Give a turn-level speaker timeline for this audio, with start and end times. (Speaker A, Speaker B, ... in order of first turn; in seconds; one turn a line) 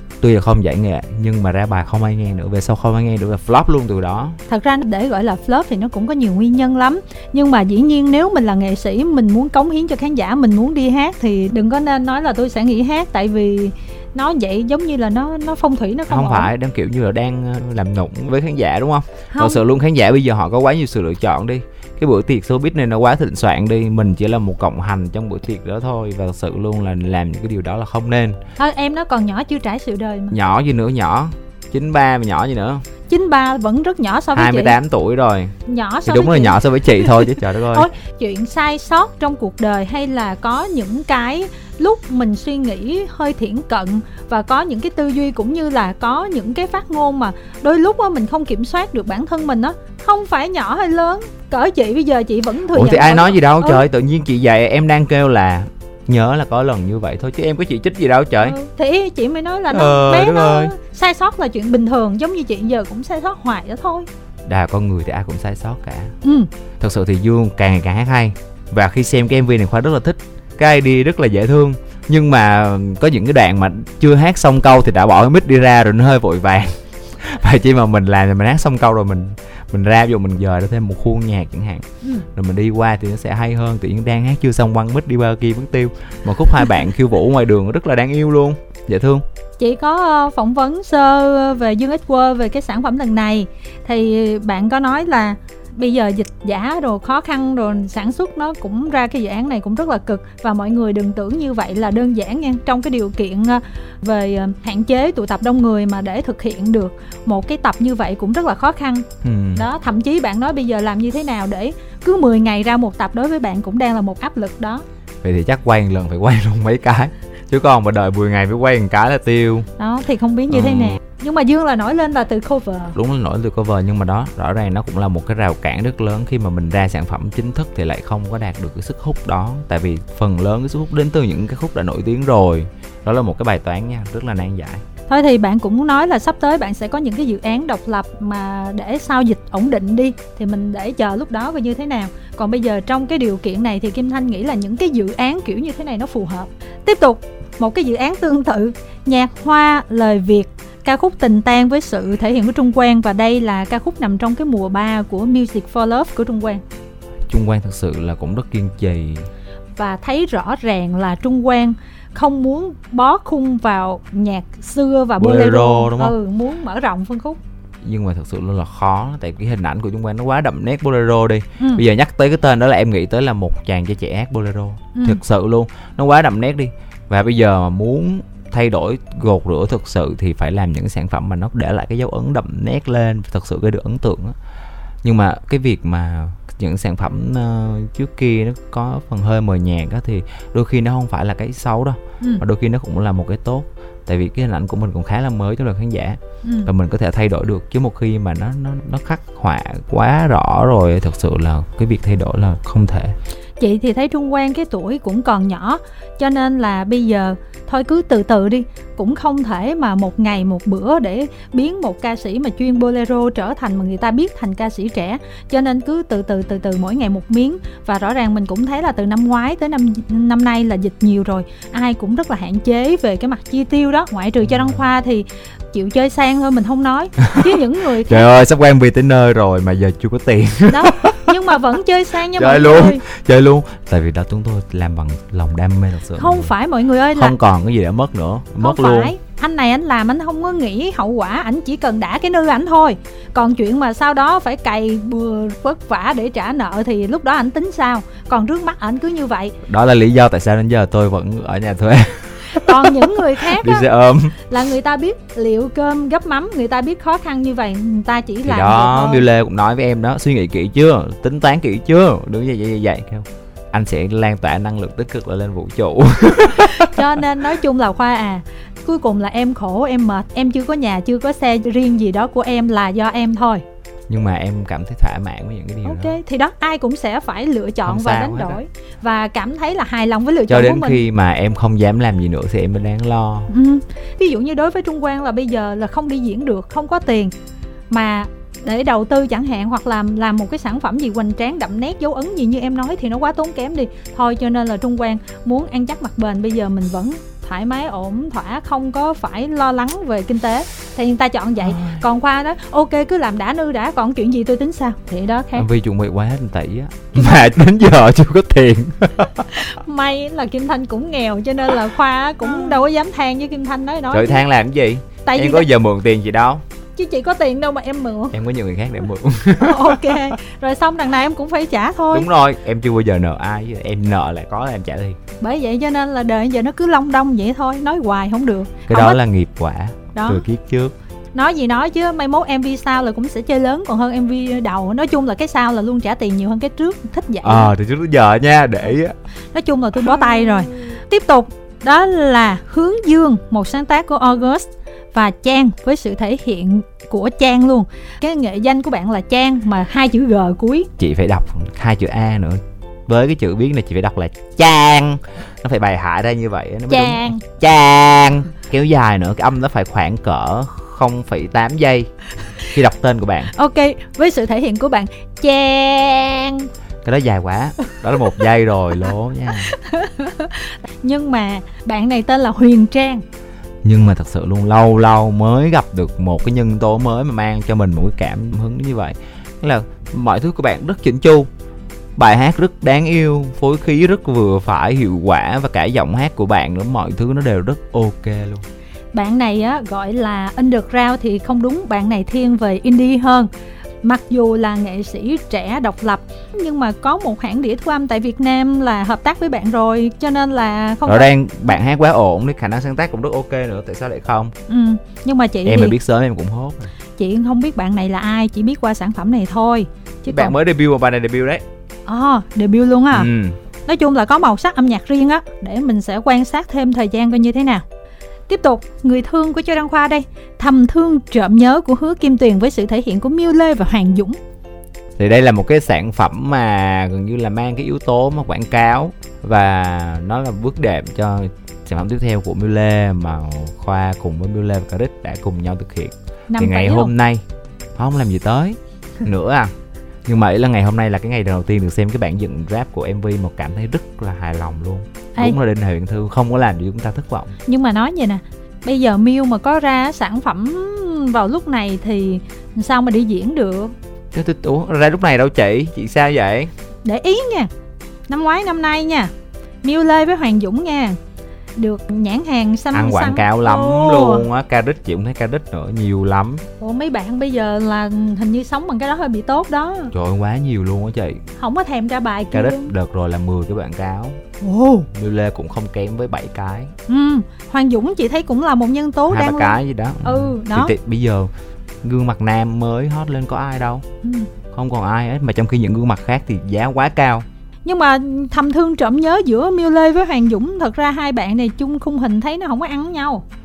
Speaker A: 0.2-4.4
Speaker B: 4.5-16.5
Speaker A: 16.1-28.4
Speaker B: 19.3-19.6
Speaker B: 28.6-30.4
Speaker A: 30.3-32.8
Speaker B: 33.1-34.8
Speaker A: 34.3-35.5
Speaker B: 35.6-53.8
Speaker A: 36.0-37.9
Speaker A: 52.7-58.5
Speaker B: 58.4-64.1
Speaker A: 59.7-60.7
Speaker A: 64.5-66.1
Speaker B: 66.2-66.5
Speaker A: 66.8-89.2
Speaker B: 89.6-114.8
Speaker A: 109.2-109.7
Speaker A: 115.2-119.7
Speaker B: 119.8-123.0
Speaker A: 120.5-121.0
Speaker A: 122.9-134.8
Speaker B: 135.1-156.6
Speaker A: 157.3-159.3
Speaker B: 159.8-167.4
Speaker A: 165.2-166.1
Speaker A: 167.8-184.3
Speaker B: 174.9-175.2
Speaker A: 185.0-203.1
Speaker B: 196.4-196.7
Speaker B: 203.6-228.2
Speaker A: 227.4-231.4
Speaker B: 230.7-233.0
Speaker A: 232.3-236.5
Speaker B: 236.2-237.3
Speaker A: 237.1-239.1
Speaker B: 238.6-249.6
Speaker A: 249.6-254.4
Speaker B: 252.5-259.2
Speaker A: 258.4-267.0
Speaker B: 266.7-273.6
Speaker A: 274.1-276.2
Speaker B: 275.8-281.0
Speaker A: 277.8-278.6
Speaker A: 280.5-283.5
Speaker B: 283.5-287.3
Speaker B: 287.9-305.7
Speaker A: 305.6-309.6
Speaker B: 307.1-307.4
Speaker B: 309.5-314.4
Speaker A: 312.4-312.8
Speaker A: 314.1-316.6
Speaker B: 315.2-315.7
Speaker B: 316.9-318.3
Speaker A: 318.3-320.3
Speaker B: 319.6-322.3
Speaker A: 322.1-325.2
Speaker B: 325.4-329.2
Speaker A: 328.9-330.9
Speaker B: 330.1-330.4
Speaker B: 331.3-337.7
Speaker A: 337.4-339.1
Speaker B: 339.5-350.9
Speaker A: 351.0-362.1
Speaker B: 356.9-357.4
Speaker A: 362.7-363.5
Speaker B: 363.5-366.7
Speaker A: 367.0-369.7
Speaker B: 369.5-373.2
Speaker A: 373.8-381.5
Speaker A: 382.2-388.6
Speaker B: 389.1-393.5
Speaker B: 394.0-401.3
Speaker A: 401.1-404.5
Speaker B: 404.7-405.9
Speaker A: 405.6-406.9
Speaker B: 407.2-410.5
Speaker A: 410.3-411.6
Speaker B: 412.1-413.3
Speaker A: 413.1-413.6
Speaker B: 413.9-417.8
Speaker B: 418.5-424.4
Speaker A: 425.2-437.4
Speaker B: 436.5-437.1
Speaker A: 437.9-439.7
Speaker A: 440.2-447.5
Speaker B: 447.6-453.9
Speaker A: 454.3-456.7
Speaker B: 457.0-457.7
Speaker B: 458.3-459.3
Speaker B: 459.8-461.2
Speaker B: 461.8-464.5
Speaker A: 462.9-466.6
Speaker B: 466.8-470.1
Speaker A: 470.1-471.4
Speaker B: 471.6-472.9
Speaker A: 472.5-474.4
Speaker B: 474.6-475.1
Speaker A: 475.1-476.9
Speaker B: 477.1-480.9
Speaker A: 479.3-481.5
Speaker A: 482.0-484.0
Speaker B: 484.2-484.5
Speaker A: 484.7-487.4
Speaker B: 487.8-493.4